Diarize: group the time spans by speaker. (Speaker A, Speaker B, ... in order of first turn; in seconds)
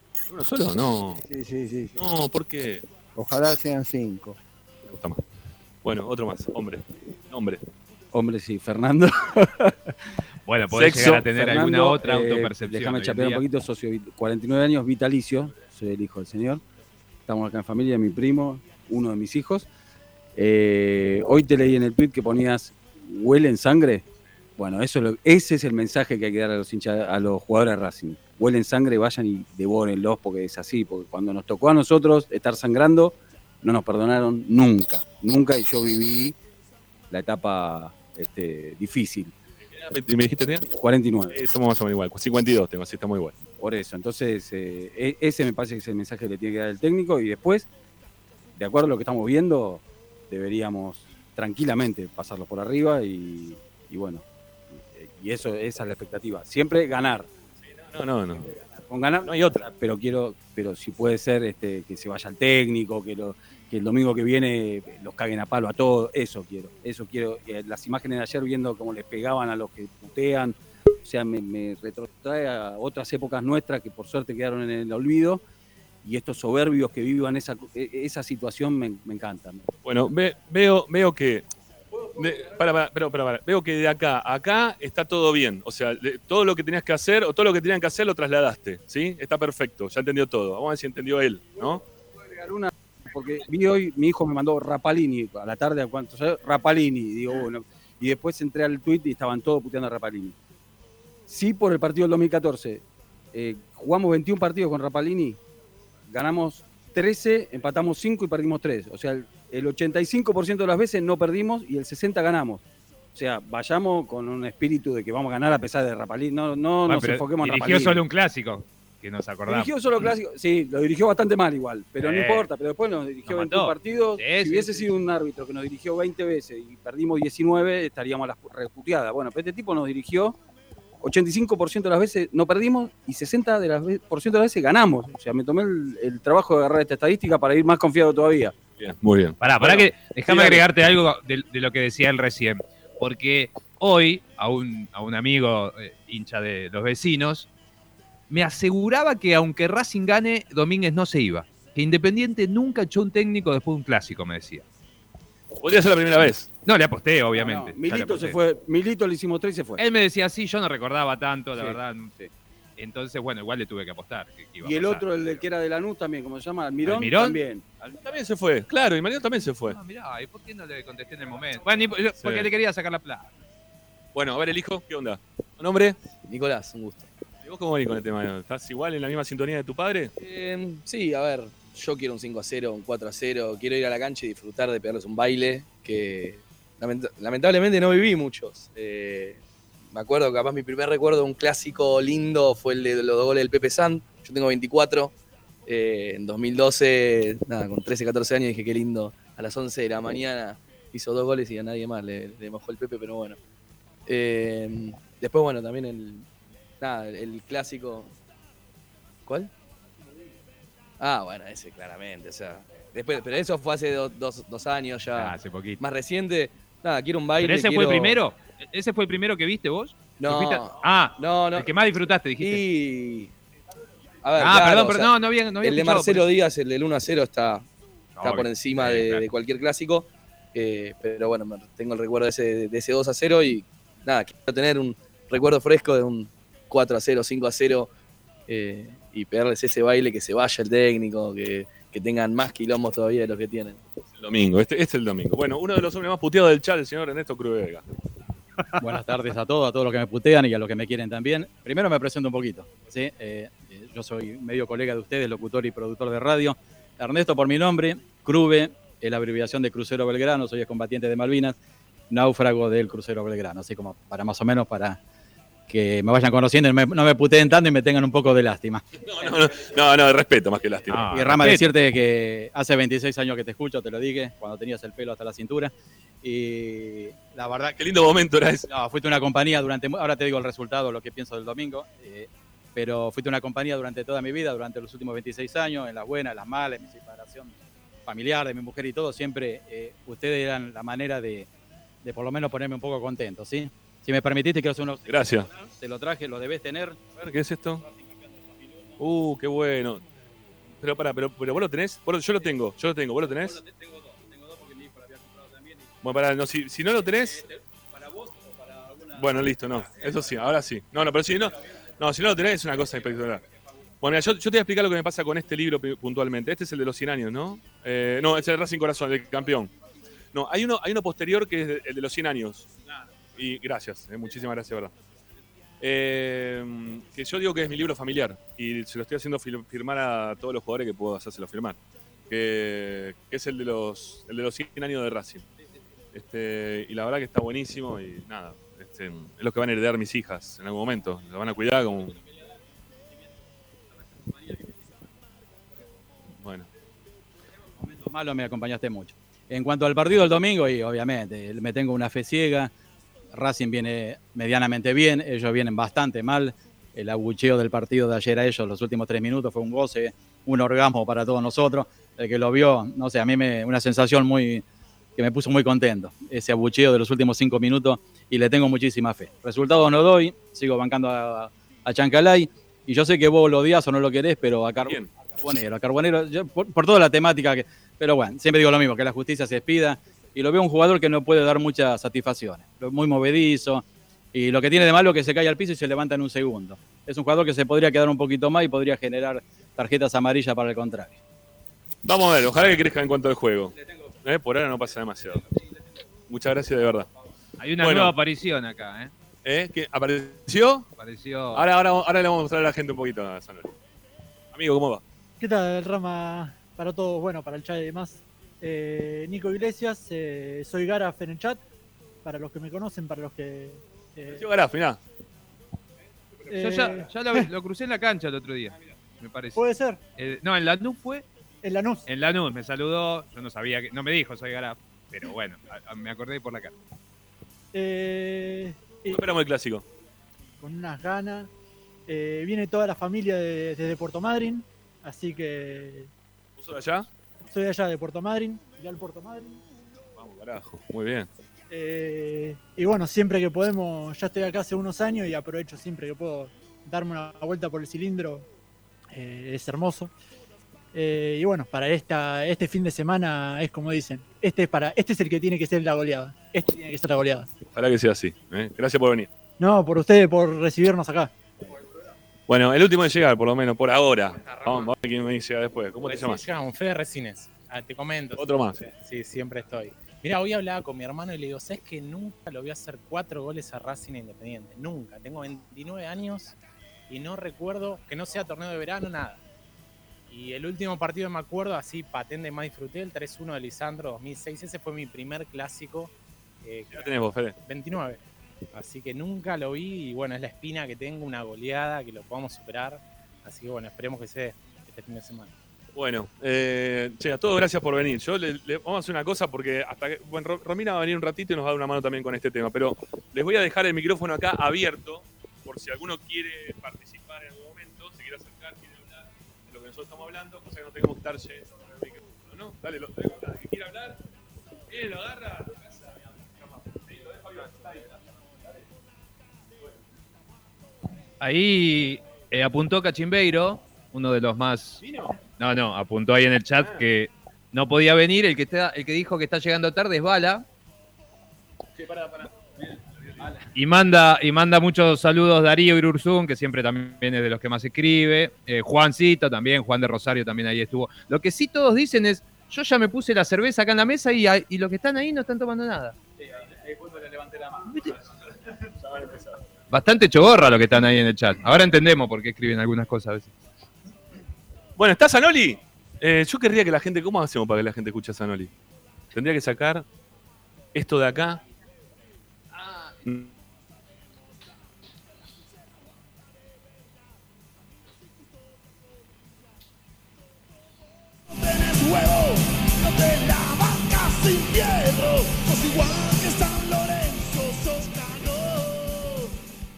Speaker A: 0.3-1.2, 2.0-2.8, 4.8-5.2, 5.8-7.6, 10.7-11.6, 39.9-40.7, 41.3-43.4, 57.8-58.6, 59.2-59.6, 79.8-81.5, 82.2-91.8, 138.8-140.4, 155.6-156.5, 167.8-169.8, 172.2-172.5, 174.1-176.0, 177.4-180.1, 244.2-247.8, 269.1-271.5, 277.8-278.7, 295.1-295.5, 297.1-297.8, 299.0-300.0, 300.8-303.6, 306.0-307.5, 309.1-313.4, 314.0-319.7, 320.3-322.7, 323.4-324.9, 325.8-331.8, 332.3-335.4, 336.1-342.2, 346.4-346.7, 374.8-375.1, 392.0-395.4, 396.3-397.1, 397.8-398.2, 399.4-400.9, 401.5-403.7, 404.5-405.0, 414.3-415.0, 429.1-429.8, 436.6-437.1, 440.2-441.3, 457.7-459.3, 462.5-466.4, 468.3-468.8, 486.9-487.6, 495.9-514.2, 514.9-515.7, 549.0-549.6, 555.0-558.7, 559.3-560.0, 560.9-561.6, 563.2-563.5
Speaker B: 1.2-2.0, 3.1-4.4
Speaker C: 8.1-9.7, 11.4-16.6, 17.3-19.7, 20.4-24.0, 24.6-36.4, 37.1-39.3, 40.7-41.4, 43.6-47.7, 48.5-54.2, 54.8-57.3, 58.9-75.4, 76.0-79.7, 92.3-100.3, 101.3-105.4, 106.1-112.6, 113.1-118.0, 119.5-130.3, 131.0-138.5, 157.3-159.8, 164.7-167.7
Speaker D: 10.4-13.4, 116.9-119.7, 122.0-122.5, 123.2-125.0, 139.4-147.5, 148.3-154.6, 156.6-158.4, 159.8-165.4, 166.8-167.4, 169.7-173.3, 215.1-215.8, 217.4-222.6, 224.3-226.3, 228.2-229.3, 270.9-271.7, 397.6-399.1, 401.0-401.6, 416.5-419.6, 420.2-421.2, 422.1-426.7, 521.4-530.6, 533.7-546.1, 547.8-548.1, 549.9-553.5
Speaker E: 176.2-177.1, 180.2-189.4, 189.9-195.1, 195.7-203.4, 204.1-206.2, 206.8-208.1, 211.0-218.2, 220.2-221.7, 222.4-223.3, 224.2-227.6, 228.2-237.9, 238.5-243.8
Speaker F: 248.8-261.6, 262.1-265.0, 265.7-269.2, 271.1-275.7, 276.2-277.8, 278.7-291.5, 292.0-297.0, 347.9-352.7, 353.3-364.6, 365.2-391.2
Speaker G: 405.4-411.6, 412.2-414.4, 416.5-417.1, 419.6-420.0, 421.6-422.0, 427.7-429.2, 430.6-431.5, 432.1-436.1, 437.4-439.6, 441.7-448.4, 449.1-450.1, 450.9-457.5, 459.6-461.3
Speaker H: 464.4-464.9, 466.0-476.5, 477.1-479.4, 480.3-487.1, 487.6-488.2, 488.7-495.5
Speaker I: 571.5-579.5